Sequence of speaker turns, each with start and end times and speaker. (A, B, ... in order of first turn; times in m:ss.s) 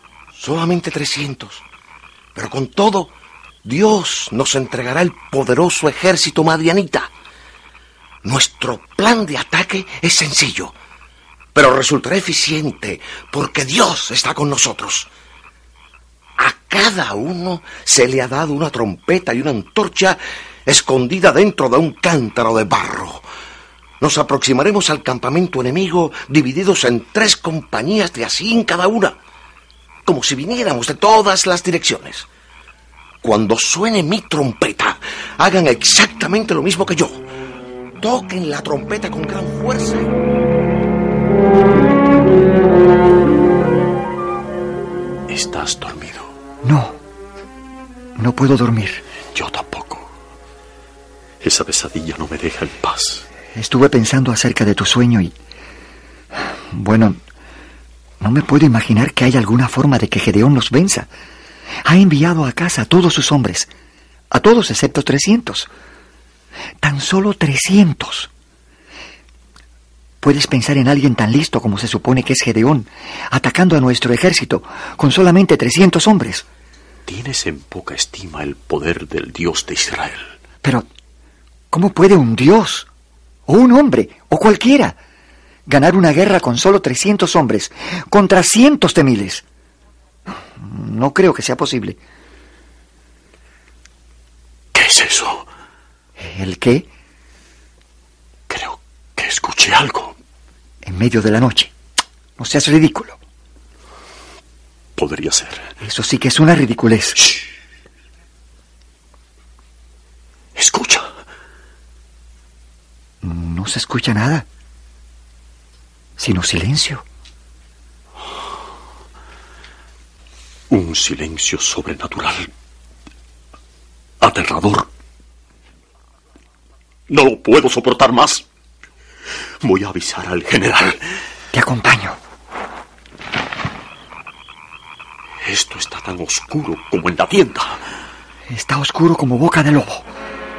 0:00.3-0:01.6 A
0:02.3-0:03.1 A
0:03.6-0:07.1 A
0:08.2-0:10.7 A
0:11.5-0:15.1 A
0:16.4-0:23.2 A
0:24.0-0:29.2 A
0:30.0-0:32.3 A
0:33.2-0:37.2 A
0:38.0-0:40.1 A
0:45.3-0:46.3 B
0:46.6-0:47.0 C
0:48.2-0:49.0 C
0:49.3-0:50.1 B
0:51.4-0:53.2 B
0:53.5-0:55.3 C
0:56.7-0:57.2 C
0:58.2-1:01.1 C
1:01.8-1:03.7 C
1:04.3-1:05.7 C
1:06.8-1:08.3 C
1:10.2-1:16.4 C
1:17.0-1:20.3 B
1:21.7-1:22.9 C
1:23.5-1:25.0 C
1:25.7-1:29.4 C
1:30.3-1:32.0 C
1:34.7-1:35.5 B
1:36.2-1:36.9 C
1:38.5-1:40.2 B
1:40.8-1:41.7 C
1:42.4-1:43.2 C
1:45.0-1:45.7 B
1:45.8-1:47.2 C
1:50.6-1:51.1 B
1:53.2-1:54.4 C
1:56.2-1:57.0 C
2:00.7-2:02.5 B
2:04.2-2:04.9 B
2:07.1-2:08.4 B
2:09.6-2:11.0 B
2:11.5-2:12.2 C
2:15.4-2:17.8 B
2:18.5-2:20.1 C